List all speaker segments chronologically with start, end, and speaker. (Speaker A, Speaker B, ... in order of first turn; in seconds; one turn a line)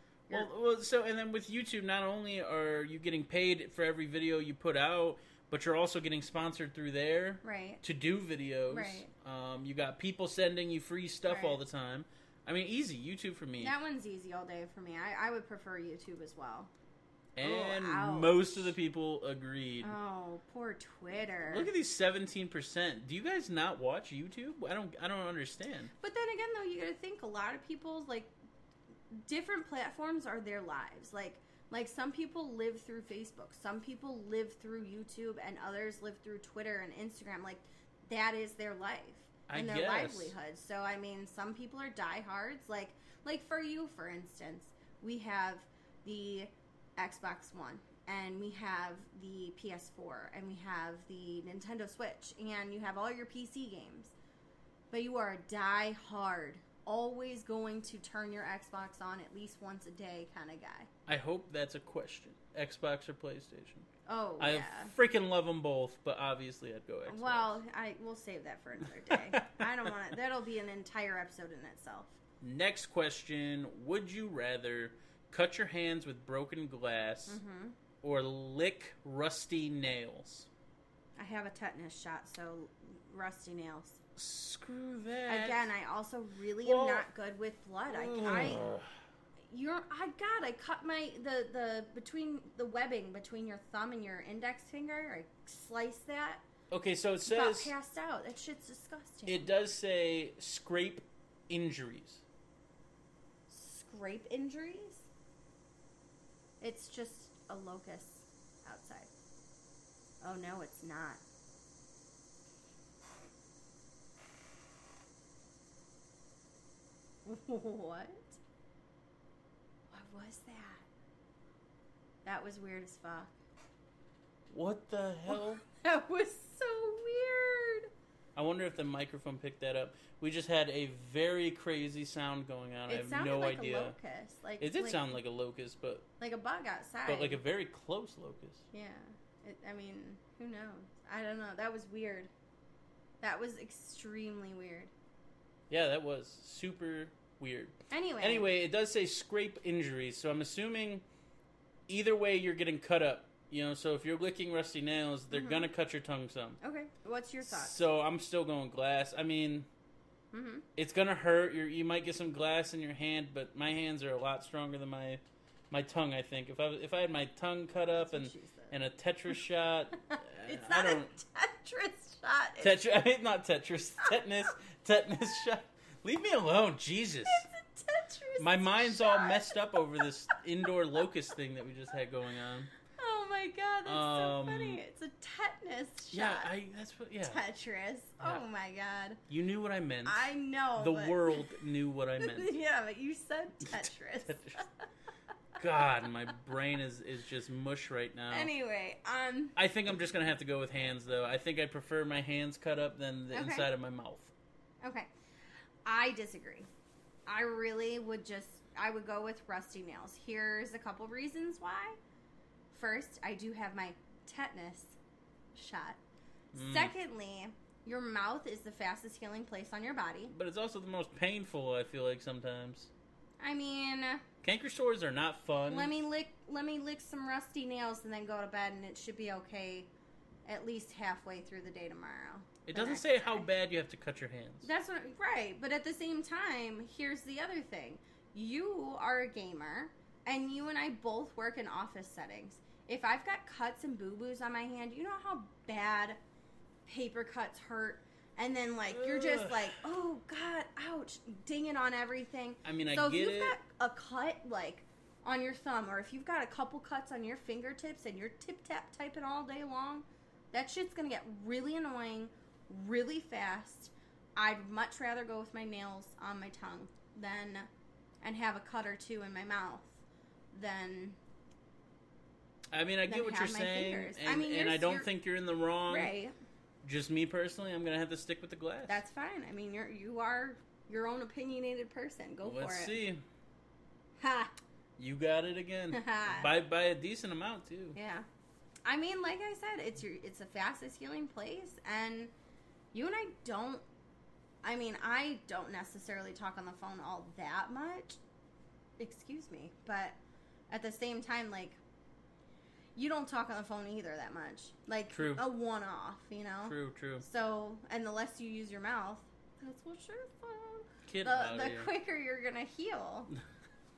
Speaker A: 0.3-13.7
Speaker B: 7.4-7.8
Speaker B: 8.7-9.1
Speaker B: 11.3-11.6
Speaker B: 13.6-16.7
Speaker A: 17.4-19.9
Speaker B: 17.4-18.7
Speaker B: 19.8-21.7
Speaker A: 21.4-25.9
Speaker B: 26.0-28.3
Speaker B: 29.1-54.1
Speaker A: 39.5-40.4
Speaker B: 54.9-60.9
Speaker A: 61.1-63.9
Speaker B: 64.1-64.9
Speaker A: 64.4-67.6
Speaker B: 67.1-72.2
Speaker A: 69.1-69.7
Speaker A: 72.4-77.4
Speaker B: 77.3-77.8
Speaker A: 78.0-80.5
Speaker B: 81.2-84.0
Speaker A: 84.2-85.7
Speaker B: 85.3-88.7
Speaker A: 86.6-87.1
Speaker A: 87.9-88.9
Speaker B: 89.5-96.4
Speaker A: 96.7-97.7
Speaker B: 97.3-99.5
Speaker A: 99.3-102.2
Speaker B: 103.5-105.1
Speaker B: 106.6-109.1
Speaker B: 110.2-111.2
Speaker B: 117.2-118.4
Speaker B: 119.9-120.9
Speaker B: 122.2-123.3
Speaker A: 124.5-125.6
Speaker B: 125.3-127.9
Speaker A: 128.4-134.0
Speaker B: 132.9-135.1
Speaker A: 134.6-136.1
Speaker B: 136.2-137.4
Speaker A: 137.1-138.7
Speaker B: 138.7-142.3
Speaker B: 143.2-144.9
Speaker A: 145.7-151.1
Speaker B: 147.9-148.5
Speaker A: 151.9-156.6
Speaker B: 155.3-155.7
Speaker B: 156.6-157.8
Speaker A: 157.4-159.7
Speaker B: 160.3-160.7
Speaker A: 160.8-171.1
Speaker B: 167.9-168.8
Speaker B: 170.1-172.8
Speaker A: 172.6-177.5
Speaker B: 177.3-179.6
Speaker A: 178.4-182.7
Speaker B: 182.9-186.5
Speaker A: 183.8-184.8
Speaker A: 186.1-187.4
Speaker B: 187.2-189.2
Speaker A: 189.3-192.6
Speaker B: 190.1-191.6
Speaker B: 192.2-194.7
Speaker A: 193.6-194.7
Speaker A: 195.6-198.5
Speaker B: 198.3-199.6
Speaker A: 199.6-204.3
Speaker B: 203.3-203.7
Speaker B: 204.8-205.1
Speaker B: 205.8-206.7
Speaker B: 207.3-212.0
Speaker B: 212.7-215.0
Speaker B: 215.5-216.0
Speaker A: 216.5-216.9
Speaker B: 216.6-220.3
Speaker A: 220.3-222.9
Speaker B: 223.4-224.2
Speaker A: 224.4-225.9
Speaker B: 225.7-229.9
Speaker B: 230.4-233.5
Speaker A: 232.7-234.7
Speaker B: 234.6-246.2
Speaker B: 246.9-267.7
Speaker A: 248.9-249.8
Speaker A: 252.6-253.6
Speaker B: 268.2-270.0
Speaker B: 270.5-271.2
Speaker A: 272.7-276.1
Speaker B: 273.1-275.1
Speaker B: 275.9-276.4
Speaker A: 276.8-279.0
Speaker B: 278.9-283.0
Speaker A: 282.4-283.2
Speaker B: 284.2-284.5
Speaker A: 285.0-288.0
Speaker B: 285.9-286.5
Speaker B: 287.9-288.3
Speaker B: 288.9-292.3
Speaker B: 292.9-293.9
Speaker B: 294.6-298.2
Speaker B: 299.0-300.2
Speaker B: 300.7-301.8
Speaker B: 302.9-313.3
Speaker A: 305.1-305.5
Speaker A: 306.6-307.2
Speaker A: 311.1-311.9